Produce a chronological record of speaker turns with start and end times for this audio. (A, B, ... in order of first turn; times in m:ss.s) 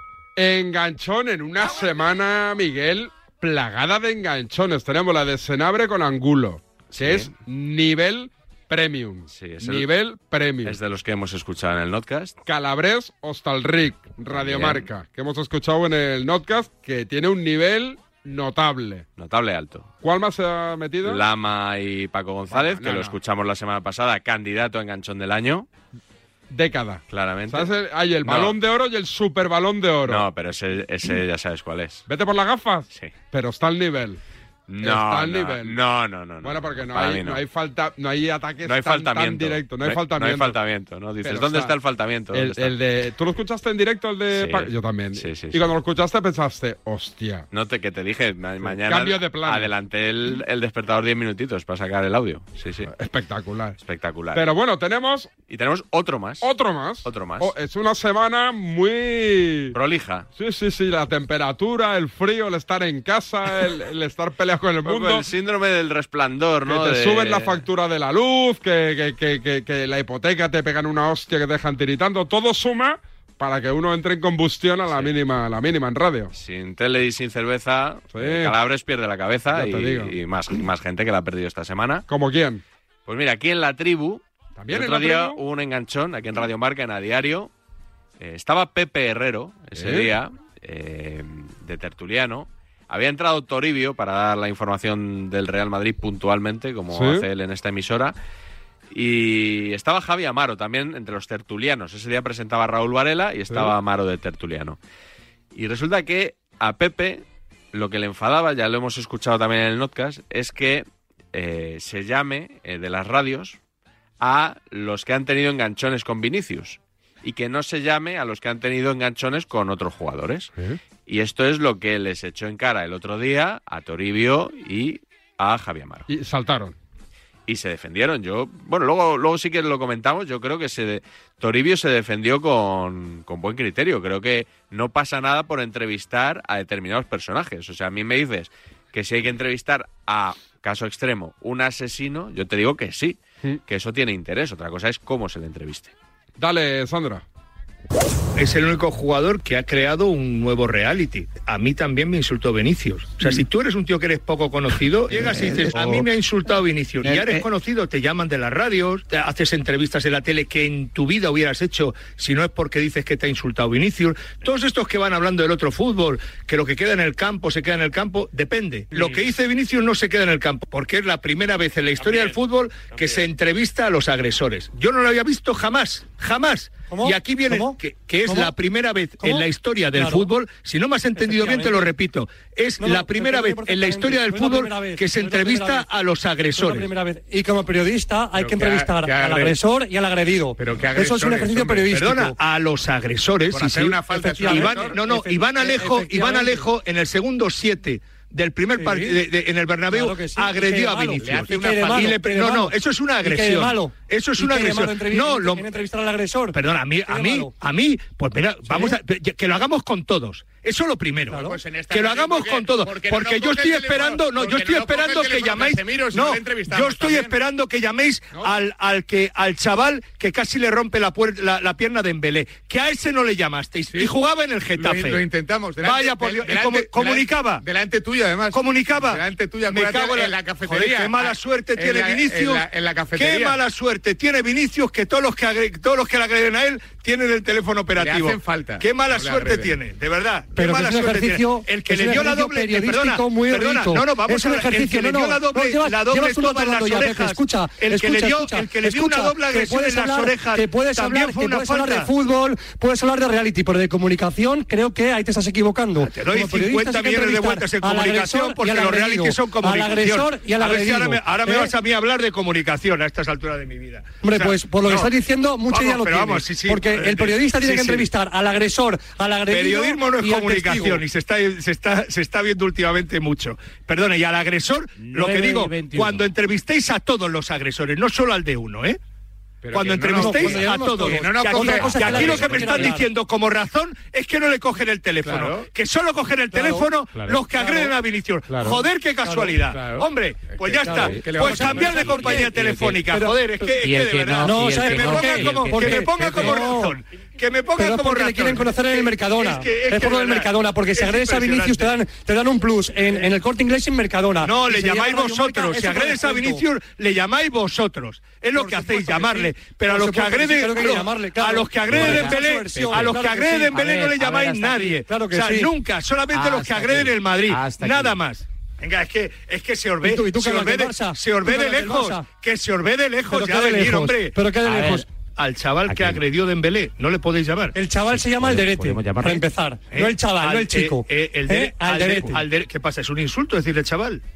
0:00.4-0:10.8 A
0:06.9-0:07.3 B
0:09.3-0:09.9 B
0:10.6-0:12.4 B
0:12.5-0:19.0 A
0:14.3-0:14.9 B
0:19.2-0:19.9 B
0:20.0-0:21.2 A
0:21.0-0:25.7 B
0:22.5-0:23.2 A
0:26.5-0:30.3 A
0:27.1-0:27.7 B
0:28.2-0:28.6 B
0:30.1-0:32.0 B
0:32.1-0:34.2 A
0:34.7-0:37.4 B
0:34.8-0:35.8 A
0:36.4-0:40.6 A
0:38.6-0:42.8 B
0:41.2-0:41.8 A
0:42.3-0:47.5 A
0:44.3-0:45.7 B
0:47.5-0:52.9 B
0:48.6-0:49.7 A
0:52.9-0:53.8 A
0:53.8-0:54.4 B
0:54.3-0:55.3 A
0:55.5-0:56.5 B
0:56.4-0:59.8 A
0:57.0-0:57.5 B
0:59.7-1:00.3 B
1:00.4-1:05.3 A
1:04.8-1:07.6 B
1:06.7-1:16.3 A
1:14.9-1:15.2 B
1:16.3-1:22.0 B
1:18.1-1:18.6 A
1:19.5-1:20.1 A
1:22.1-1:22.6 A
1:23.1-1:27.5 B
1:24.6-1:25.4 A
1:28.2-1:38.2 B
1:29.7-1:30.1 A
1:36.9-1:37.3 A
1:38.9-1:44.8 B
1:43.5-1:43.8 A
1:45.5-1:53.6 B
1:54.2-2:00.5 B
2:01.1-2:06.1 B
2:06.1-2:06.8 A
2:07.5-2:25.9 B
2:26.4-2:27.2 A
2:28.4-3:06.9 C
2:56.9-2:58.6 D
2:59.2-3:00.3 D
3:01.2-3:01.9 D
3:02.8-3:05.9 D
3:06.6-3:12.4 D
3:08.4-3:09.4 E
3:10.6-3:11.8 E
3:11.9-3:25.8 C
3:13.7-3:14.8 E
3:14.1-3:16.6 D
3:18.8-3:19.2 D
3:19.9-3:27.5 D
3:21.3-3:21.9 E
3:26.5-3:47.7 C
3:28.7-3:29.0 D
3:31.3-3:31.6 D
3:31.6-3:32.6 E
3:33.5-3:37.1 E
3:44.9-3:47.2 E
3:47.7-3:48.5 E
3:48.5-4:12.1 C
3:49.1-3:51.2 E
3:51.9-3:53.4 E
3:58.0-3:58.8 E
4:00.6-4:21.7 D
4:16.0-4:25.1 C
4:24.2-4:31.0 D
4:25.7-4:28.1 C
4:29.5-4:39.0 C
4:39.7-5:02.0 C
4:39.7-4:40.5 E
4:40.1-4:43.1 D
4:41.2-4:42.8 E
4:46.5-4:46.9 D
4:47.6-4:47.9 D
4:49.2-4:49.5 D
4:49.7-4:50.0 E
4:50.8-4:52.8 E
4:50.8-4:52.5 D
4:53.0-4:53.4 D
4:54.4-4:57.0 D
4:57.8-5:06.6 D
5:03.0-5:03.3 C
5:04.4-5:27.8 C
5:08.5-5:15.7 D
5:20.0-5:22.3 D
5:23.3-5:25.1 D
5:27.8-5:32.4 D
5:29.9-5:34.2 C